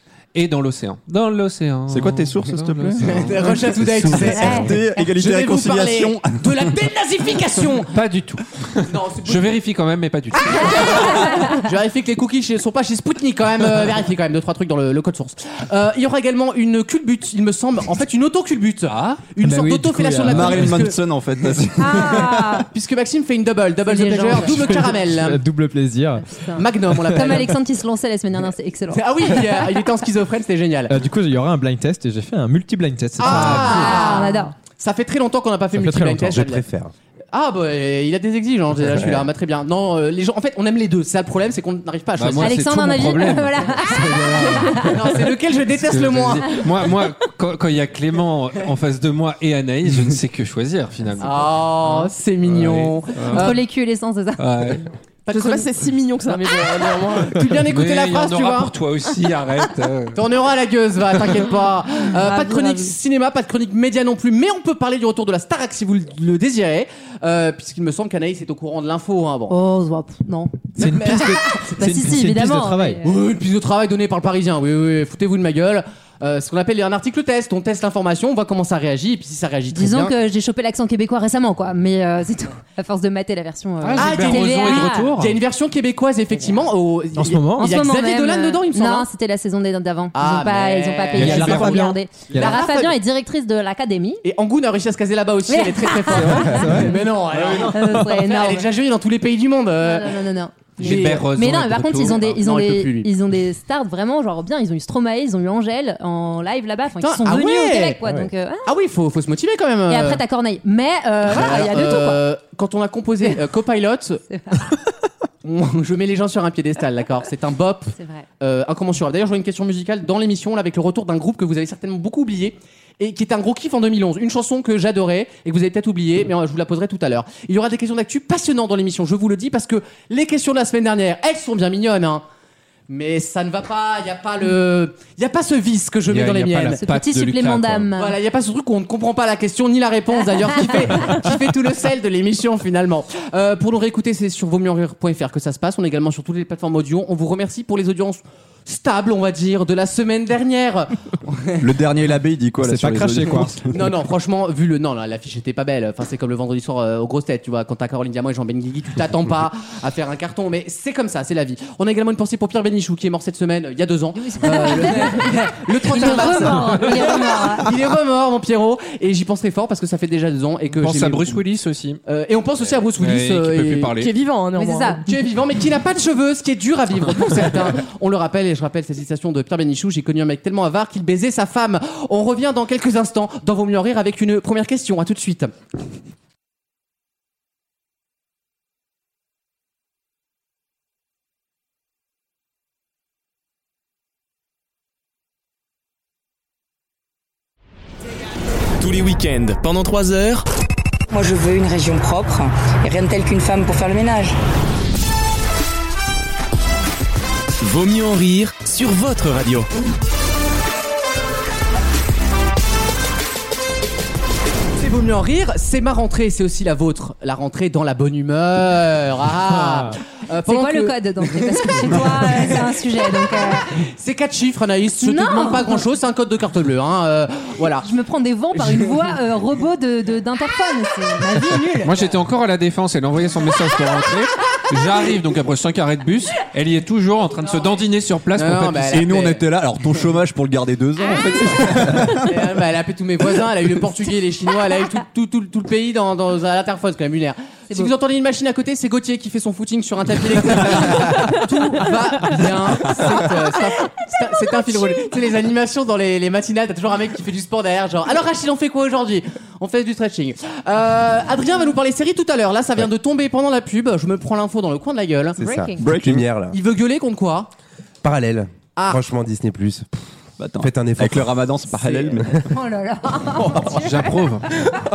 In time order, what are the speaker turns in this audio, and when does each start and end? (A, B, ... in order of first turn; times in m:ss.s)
0:00.3-0:03.3 A
0:01.9-0:06.7 B
0:03.0-0:07.9 C
0:04.3-0:04.7 D
0:07.9-0:10.9 A
0:08.8-0:09.6 C
0:10.4-0:21.0 C
0:10.5-0:11.6 D
0:18.8-0:19.2 A
0:19.4-0:20.7 E
0:20.2-0:22.6 B
0:21.8-0:22.7 D
0:22.7-0:25.4 C
0:23.8-0:24.7 D
0:24.4-0:26.3 E
0:26.2-0:29.7 D
0:26.5-0:27.6 C
0:28.9-0:31.0 C
0:30.9-0:34.0 E
0:33.2-0:36.6 C
0:33.2-0:34.0 A
0:33.2-0:34.5 D
0:35.7-0:36.4 E
0:36.3-0:36.9 F
0:37.3-0:42.6 C
0:42.2-0:43.7 A
0:42.4-0:45.0 D
0:43.8-0:44.9 E
0:44.8-0:46.6 C
0:45.7-0:53.5 A
0:51.2-0:53.6 C
0:53.3-0:54.7 D
0:54.4-0:54.8 A
0:55.3-0:55.7 C
0:55.3-0:57.4 G
0:56.3-0:58.7 C
0:57.6-1:00.2 A
1:00.1-1:09.5 C
1:02.2-1:02.9 D
1:09.5-1:13.2 D
1:10.8-1:13.0 E
1:10.8-1:11.4 C
1:13.0-1:20.1 C
1:19.7-1:25.1 D
1:23.8-1:25.4 A
1:24.0-1:29.1 C
1:27.2-1:27.7 E
1:27.6-1:34.2 D
1:30.1-1:33.0 C
1:31.1-1:32.6 E
1:34.2-1:40.2 C
1:35.5-1:36.9 D
1:36.1-1:37.0 E
1:37.6-1:38.7 D
1:39.8-1:48.7 D
1:40.8-1:41.3 C
1:40.8-1:42.2 A
1:42.2-1:43.1 C
1:47.0-1:48.0 C
1:48.0-1:48.3 F
1:48.6-1:50.2 C
1:49.9-1:52.2 D
1:51.2-1:54.2 C
1:54.3-1:54.7 D
1:55.4-2:12.2 C
1:57.9-1:58.2 D
2:12.9-2:16.8 C
2:16.1-2:17.9 A
2:16.8-2:18.2 D
2:18.0-2:31.7 C
2:31.6-2:33.9 B
2:32.6-2:33.6 E
2:33.7-2:51.4 C
2:44.1-2:47.7 D
2:50.7-2:52.0 A
2:52.0-2:53.9 C
2:53.0-2:54.1 A
2:54.0-2:55.0 G
2:54.5-2:55.0 D
2:55.0-3:05.5 C
3:18.8-3:20.4 H
3:21.1-3:24.4 I
3:27.6-3:29.7 H
3:34.8-3:47.9 C
3:39.6-3:39.9 E
3:40.4-3:43.7 D
3:45.0-3:45.8 D
3:47.8-3:51.9 D
3:48.5-3:49.1 C
3:51.5-3:52.1 C
3:51.8-3:58.9 A
3:58.3-3:59.4 C
3:58.8-4:02.3 B
4:02.1-4:25.4 C
4:25.4-4:26.6 F
4:25.4-4:25.8 D
4:25.8-4:26.3 B
4:26.4-4:27.5 C
4:28.0-4:30.0 F
4:28.8-4:29.0 C
4:30.4-4:32.4 B
4:30.6-4:32.4 F
4:32.5-4:34.1 D
4:33.6-4:34.5 A